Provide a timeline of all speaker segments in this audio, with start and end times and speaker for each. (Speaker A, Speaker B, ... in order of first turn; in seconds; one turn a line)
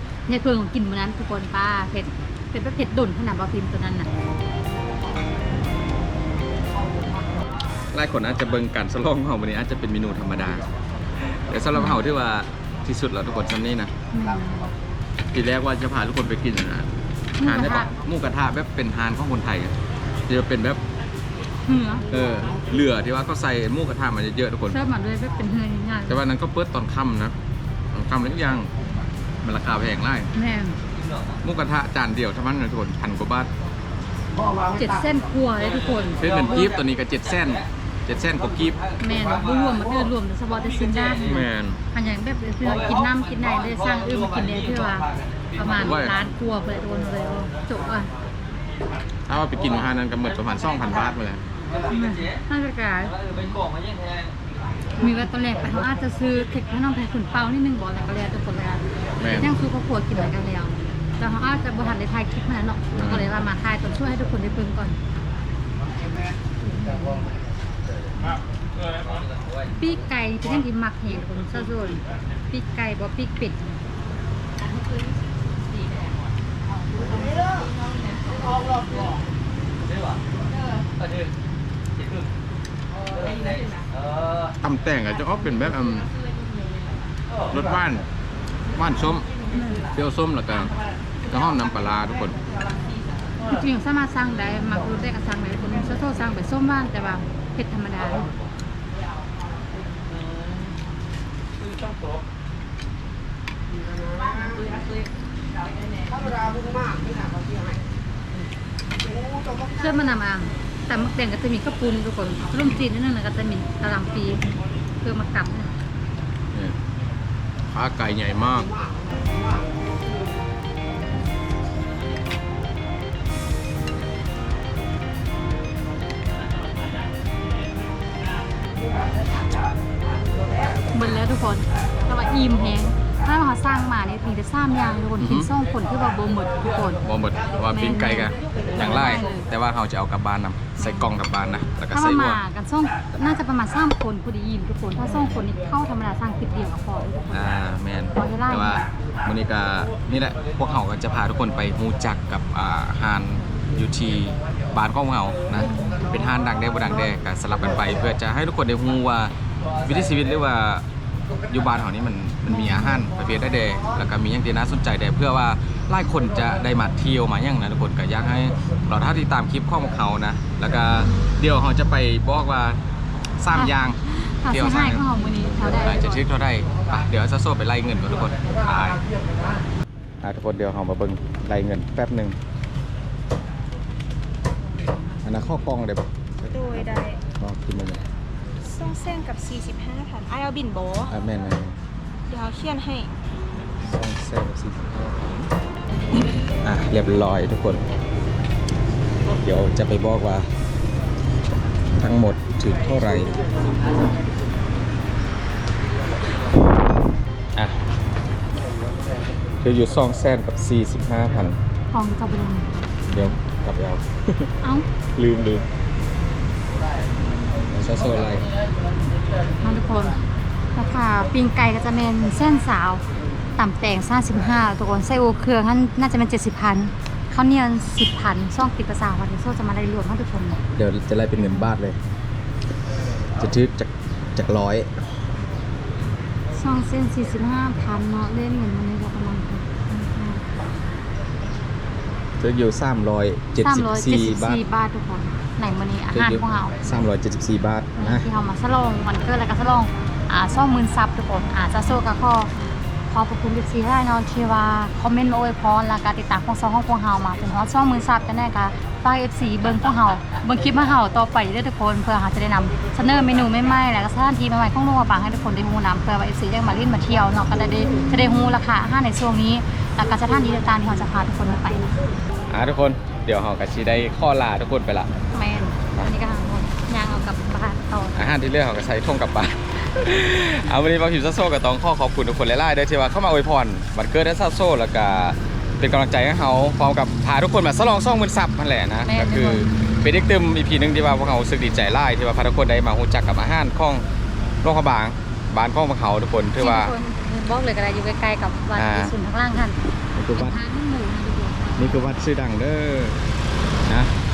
Speaker A: 0.3-4.1
Speaker B: 7.9-10.6
Speaker B: 11.2-13.9
Speaker A: 14.1-14.7
Speaker B: 15.3-16.9
Speaker A: 17.4-17.9
Speaker B: 17.4-19.7
Speaker B: 20.3-20.8
Speaker A: 21.6-22.1
Speaker B: 22.1-24.8
Speaker A: 24.7-26.2
Speaker B: 26.1-27.3
Speaker B: 27.9-28.7
Speaker B: 29.4-30.3
Speaker A: 30.3-30.8
Speaker B: 31.4-33.5
Speaker A: 34.7-36.7
Speaker B: 36.2-38.8
Speaker A: 39.0-48.1
Speaker B: 41.2-41.8
Speaker B: 45.7-46.2
Speaker B: 49.3-51.4
Speaker A: 51.9-53.6
Speaker B: 53.3-53.6
Speaker A: 55.0-65.0
Speaker B: 59.2-59.5
Speaker B: 62.9-63.3
Speaker A: 66.6-67.3
Speaker A: 69.8-73.8
Speaker B: 84.6-86.1
Speaker B: 87.5-88.0
Speaker B: 88.7-89.3
Speaker A: 89.5-89.8
Speaker B: 89.9-90.7
Speaker B: 91.3-92.4
Speaker A: 93.5-98.3
Speaker A: 104.3-105.0
Speaker A: 109.7-114.5
Speaker B: 112.5-112.9
Speaker A: 115.0-115.7
Speaker B: 117.7-118.7
Speaker A: 130.9-137.0
Speaker B: 135.2-135.5
Speaker B: 137.0-142.4
Speaker A: 137.7-139.5
Speaker A: 140.8-141.2
Speaker A: 141.9-147.5
Speaker B: 145.1-145.4
Speaker B: 147.3-159.3
Speaker A: 148.1-148.8
Speaker A: 155.6-156.1
Speaker B: 159.8-160.8
Speaker B: 161.5-172.8
Speaker A: 162.5-162.9
Speaker B: 173.4-179.0
Speaker A: 173.5-176.2
Speaker B: 180.2-182.4
Speaker B: 185.2-188.0
Speaker C: 186.5-187.2
Speaker C: 188.6-191.1
Speaker B: 191.1-191.7
Speaker C: 192.3-193.1
Speaker B: 193.8-195.5
Speaker B: 196.6-197.8
Speaker B: 199.3-200.4
Speaker B: 201.9-203.4
Speaker B: 209.6-211.6
Speaker A: 211.9-212.7
Speaker B: 213.1-214.5
Speaker B: 215.1-215.6
Speaker B: 217.7-218.5
Speaker A: 219.6-220.2
Speaker A: 220.8-223.0
Speaker A: 223.6-230.6
Speaker B: 230.7-232.0
Speaker A: 231.4-231.7
Speaker B: 233.4-234.9
Speaker A: 236.5-240.4
Speaker B: 242.4-244.6
Speaker A: 243.6-246.8
Speaker B: 246.1-248.3
Speaker A: 248.0-252.5
Speaker A: 253.1-271.9
Speaker B: 272.5-275.1
Speaker A: 275.3-278.2
Speaker B: 278.1-294.0
Speaker A: 289.0-289.7
Speaker B: 294.6-296.9
Speaker A: 296.6-299.8
Speaker B: 298.7-299.1
Speaker B: 300.1-300.6
Speaker A: 300.3-302.1
Speaker B: 301.8-303.2
Speaker B: 303.9-304.1